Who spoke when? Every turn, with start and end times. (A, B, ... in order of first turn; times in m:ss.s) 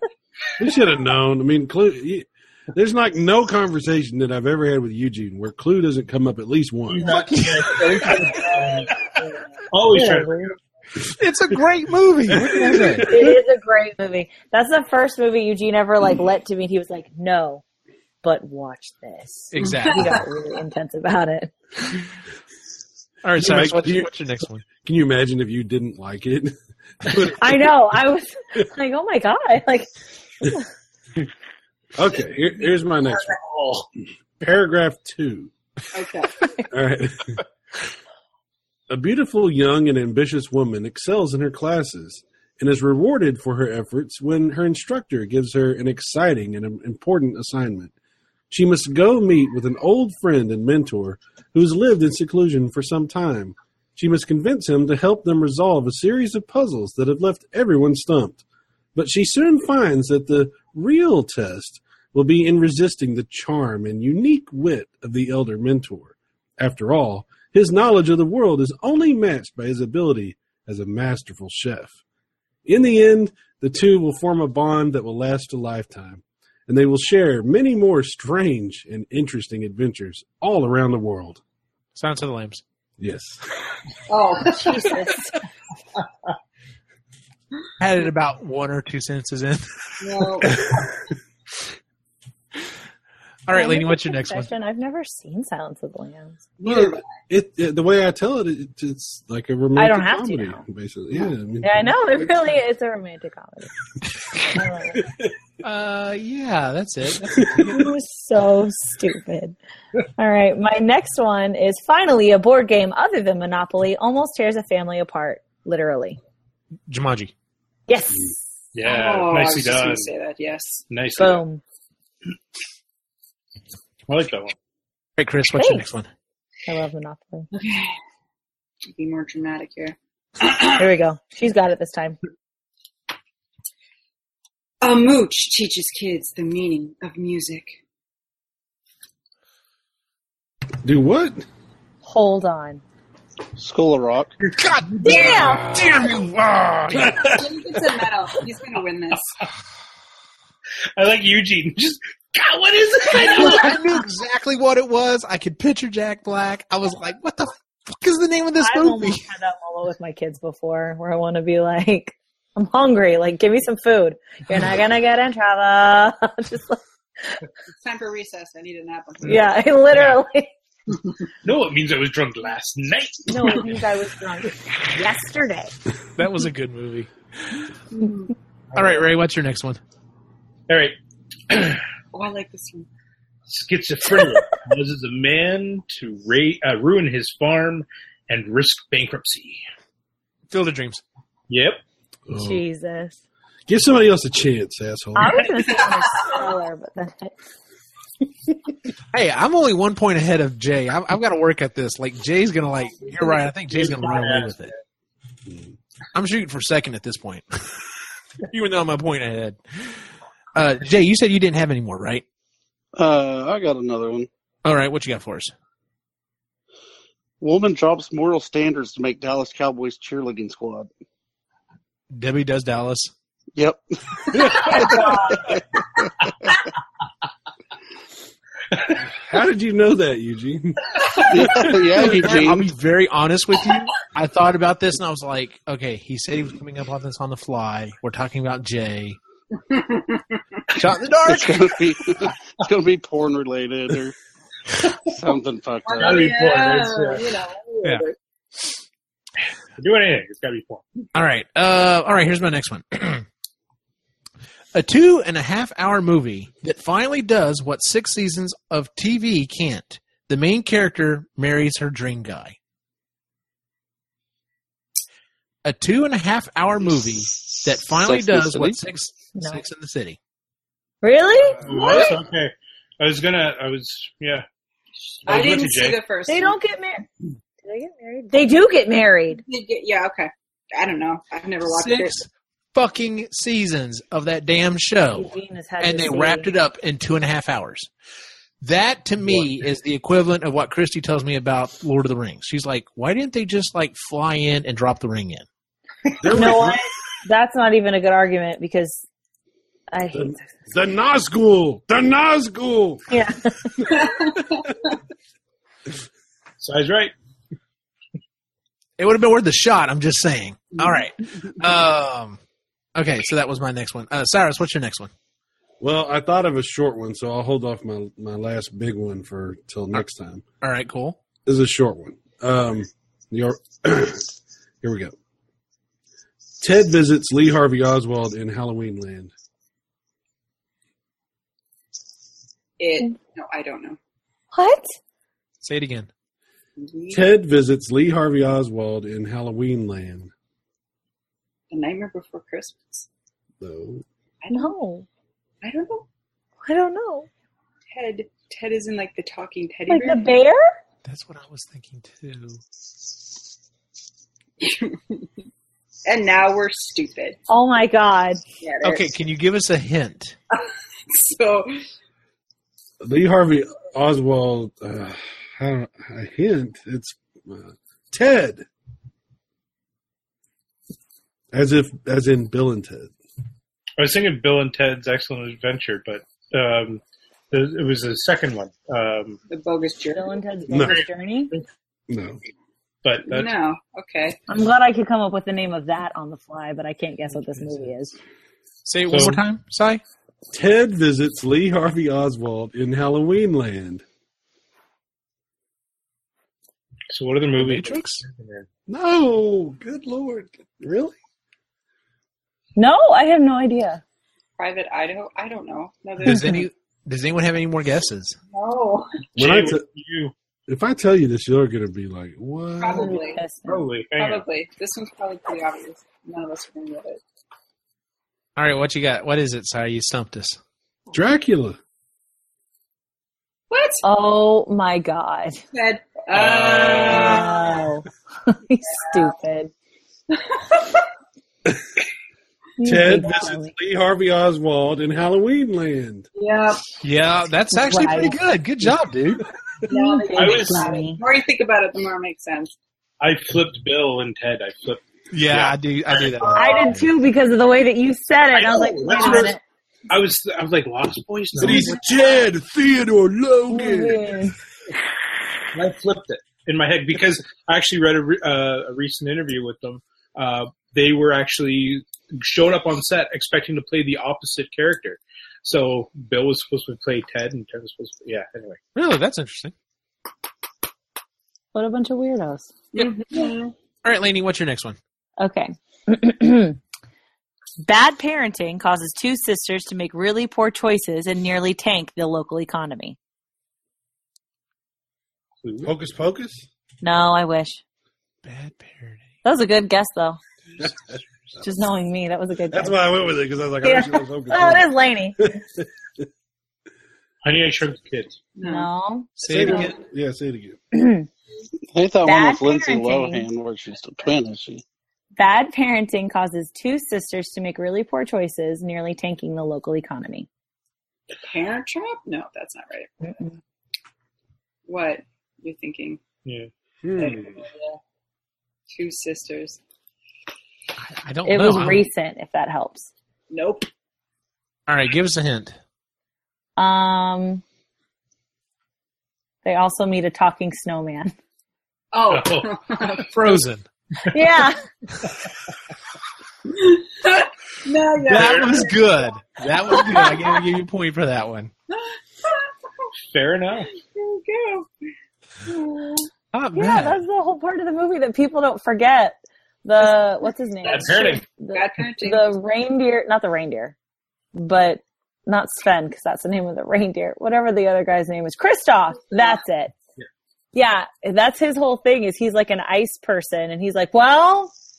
0:00.6-0:07.2 A
0:06.9-0:09.0 B
0:07.0-0:08.3 C
0:09.7-0:10.5 B
0:09.9-0:10.5 D
0:11.2-0:13.1 C
0:12.3-0:13.3 A
0:13.0-0:17.6 D
0:18.2-0:21.5 D
0:19.5-0:20.2 C
0:19.6-0:20.2 E
0:23.2-0:24.7 C
0:23.4-0:24.1 A
0:24.8-0:27.7 A
0:27.4-0:29.9 D
0:32.0-0:33.4 A
0:33.3-0:33.8 B
0:34.4-0:35.5 A
0:35.9-0:36.3 E
0:36.7-0:37.4 A
0:38.9-0:47.9 A
0:48.5-0:58.4 A
0:58.9-1:12.0 A
1:12.6-1:21.4 A
1:21.9-1:22.6 C
1:23.0-1:23.4 A
1:24.1-1:25.0 E
1:24.6-1:25.4 D
1:27.8-1:30.0 C
1:30.0-1:30.6 E
1:33.5-1:34.5 C
1:33.5-1:36.4 D
1:36.6-1:37.0 E
1:36.6-1:42.3 A
1:39.8-1:40.6 D
1:41.6-1:43.7 D
1:44.4-1:45.1 D
1:45.6-1:47.8 C
1:47.6-1:49.6 D
1:50.2-1:56.2 D
1:56.9-1:57.3 C
1:57.9-1:58.4 D
1:58.7-2:00.1 B
1:58.8-2:00.8 E
2:00.9-2:01.4 B
2:01.2-2:01.6 D
2:04.1-2:04.5 B
2:05.2-2:06.1 C
2:05.6-2:05.8 D
2:06.7-2:07.5 D
2:07.5-2:07.9 E
2:08.9-2:10.7 E
2:10.7-2:12.2 D
2:14.8-2:17.8 E
2:20.8-2:21.4 A
2:22.0-2:22.8 D
2:23.6-2:24.3 F
2:24.5-2:27.2 C
2:24.9-2:25.6 B
2:25.0-2:25.6 E
2:25.0-2:25.6 D
2:25.5-2:27.3 A
2:27.1-2:29.3 E
2:31.0-2:33.8 B
2:33.2-2:39.2 C
2:38.6-2:47.4 D
2:47.7-2:49.5 E
2:49.2-2:50.5 D
2:51.4-2:53.7 B
2:53.3-2:55.7 D
2:56.2-2:57.1 C
2:57.9-2:58.3 E
2:58.7-2:59.1 B
2:58.7-2:59.8 C
3:00.7-3:01.0 B
3:01.5-3:01.8 B
3:02.1-3:02.9 E
3:03.5-3:09.6 B
3:10.5-3:11.0 C
3:11.5-3:11.8 B
3:12.3-3:12.6 A
3:12.3-3:13.2 D
3:13.7-3:15.5 A
3:15.2-3:17.3 D
3:15.7-3:16.4 E
3:19.1-3:24.7 C
3:23.7-3:24.7 B
3:26.1-3:27.7 C
3:28.5-3:29.6 C
3:30.5-3:32.2 C
3:33.0-3:34.3 F
3:34.6-3:35.5 C
3:37.4-3:40.9 F
3:42.1-3:43.1 C
3:43.6-3:44.7 F
3:44.3-3:44.8 A
3:44.9-3:45.4 E
3:49.1-3:52.2 A
3:51.3-3:52.7 F
3:51.9-3:59.2 C
3:59.7-4:00.2 E
4:00.7-4:01.8 C
4:01.2-4:04.1 F
4:05.1-4:06.3 F
4:05.8-4:08.1 E
4:06.0-4:07.4 B
4:09.8-4:10.8 B
4:11.1-4:13.2 C
4:14.7-4:22.6 C
4:25.6-4:30.2 C
4:27.9-4:28.8 F
4:31.0-4:32.2 D
4:31.6-4:34.4 B
4:31.8-4:32.1 E
4:35.0-4:36.5 E
4:35.2-4:36.0 B
4:36.3-4:37.1 D
4:37.6-4:39.4 D
4:39.4-4:42.2 E
4:41.7-4:47.9 C
4:45.1-4:46.5 D
4:48.6-4:55.4 C
4:49.2-4:49.6 A
4:56.2-4:56.8 A
4:56.3-4:59.0 D
4:59.9-5:00.6 D
5:00.1-5:03.1 A
5:03.1-5:03.9 D
5:03.9-5:04.8 E
5:06.6-5:07.1 B
5:09.0-5:12.4 C
5:10.8-5:11.0 E
5:12.9-5:15.1 C
5:15.8-5:20.4 A
5:20.6-5:21.2 C
5:21.4-5:24.2 A
5:24.8-5:25.1 A
5:26.6-5:29.3 A
5:32.8-5:34.0 E
5:34.5-5:35.0 D
5:35.6-5:36.1 C
5:36.8-5:37.3 E
5:37.1-5:40.3 A
5:41.7-5:43.1 E
5:43.6-5:44.0 A
5:44.4-5:44.7 E
5:44.5-5:45.1 D
5:45.6-5:46.1 E
5:46.6-5:47.3 D
5:47.9-5:50.3 E
5:49.9-5:50.8 D
5:51.0-5:52.6 C
5:54.6-5:55.3 E
5:56.0-5:57.4 E
5:57.5-5:58.4 D
5:58.6-5:59.1 E
5:58.8-6:00.4 C
6:00.5-6:01.7 E
6:03.0-6:08.7 A
6:11.5-6:13.1 A
6:14.0-6:19.4 B
6:19.5-6:20.4 E
6:20.1-6:21.5 D
6:20.7-6:21.0 A
6:20.7-6:21.6 B
6:22.1-6:22.4 A
6:23.0-6:23.5 B
6:23.3-6:24.4 E
6:24.5-6:28.2 D
6:28.8-6:30.0 C
6:29.1-6:29.4 B
6:30.5-6:34.0 A
6:37.1-6:38.7 B
6:37.6-6:38.2 C
6:38.9-6:41.2 A
6:42.8-6:44.0 D
6:44.6-6:46.6 E
6:46.2-6:48.4 C
6:46.3-6:46.6 D
6:48.5-6:49.1 E
6:49.4-6:49.8 A
6:49.4-6:50.3 B
6:50.7-6:53.2 A
6:52.8-6:53.4 E
6:52.9-6:53.9 D
6:53.6-6:54.4 B
6:54.2-6:57.2 E
6:58.6-7:00.6 C
7:01.1-7:01.8 A
7:03.7-7:04.0 E
7:04.0-7:05.6 D
7:05.7-7:07.8 E
7:06.3-7:07.4 B
7:07.1-7:09.7 D
7:10.3-7:11.0 E
7:12.8-7:13.7 D
7:12.8-7:16.3 A
7:16.4-7:16.8 E
7:17.0-7:19.4 C
7:17.7-7:18.3 D
7:19.9-7:21.2 D
7:19.9-7:22.7 E
7:20.3-7:21.0 B
7:23.2-7:26.7 B
7:25.3-7:26.9 C
7:26.6-7:29.6 D
7:28.5-7:29.6 B
7:30.1-7:32.0 B
7:31.6-7:34.4 A
7:31.6-7:32.0 D
7:33.7-7:34.6 D
7:35.7-7:48.8 B
7:48.9-7:49.7 C
7:51.7-7:52.7 D
7:52.9-7:53.7 E
7:54.0-7:55.0 C
7:55.4-7:56.8 D
7:57.8-8:03.2 D
8:05.6-8:05.9 B
8:05.8-8:06.6 A
8:07.0-8:07.8 D
8:08.4-8:09.2 C
8:09.4-8:10.4 D
8:11.6-8:13.0 D
8:12.7-8:16.2 A
8:13.8-8:15.6 D
8:17.4-8:18.4 B
8:18.6-8:18.9 E
8:18.6-8:19.9 D
8:19.4-8:20.0 C
8:19.4-8:20.8 A
8:20.9-8:21.3 D
8:21.9-8:24.8 F
8:22.2-8:23.4 D
8:25.4-8:30.5 D
8:31.4-8:33.1 E
8:34.8-8:36.2 E
8:37.0-8:37.6 A
8:37.2-8:38.0 E
8:38.9-8:39.8 E
8:41.0-8:42.0 C
8:41.4-8:43.1 D
8:43.5-8:43.9 E
8:44.9-8:45.8 C
8:46.8-8:47.6 D
8:49.6-8:51.3 D
8:52.1-8:53.3 E
8:52.3-8:52.8 B
8:53.2-8:53.8 C
8:54.3-8:54.8 D
8:56.6-8:59.2 E
8:58.2-9:01.7 C
8:59.9-9:00.6 E
9:01.9-9:02.7 E
9:03.3-9:03.9 B
9:03.9-9:04.9 E
9:05.6-9:06.3 E
9:06.5-9:07.2 C
9:06.7-9:13.9 D
9:10.8-9:11.4 B
9:10.8-9:12.5 E
9:14.5-9:19.9 D
9:20.7-9:24.7 D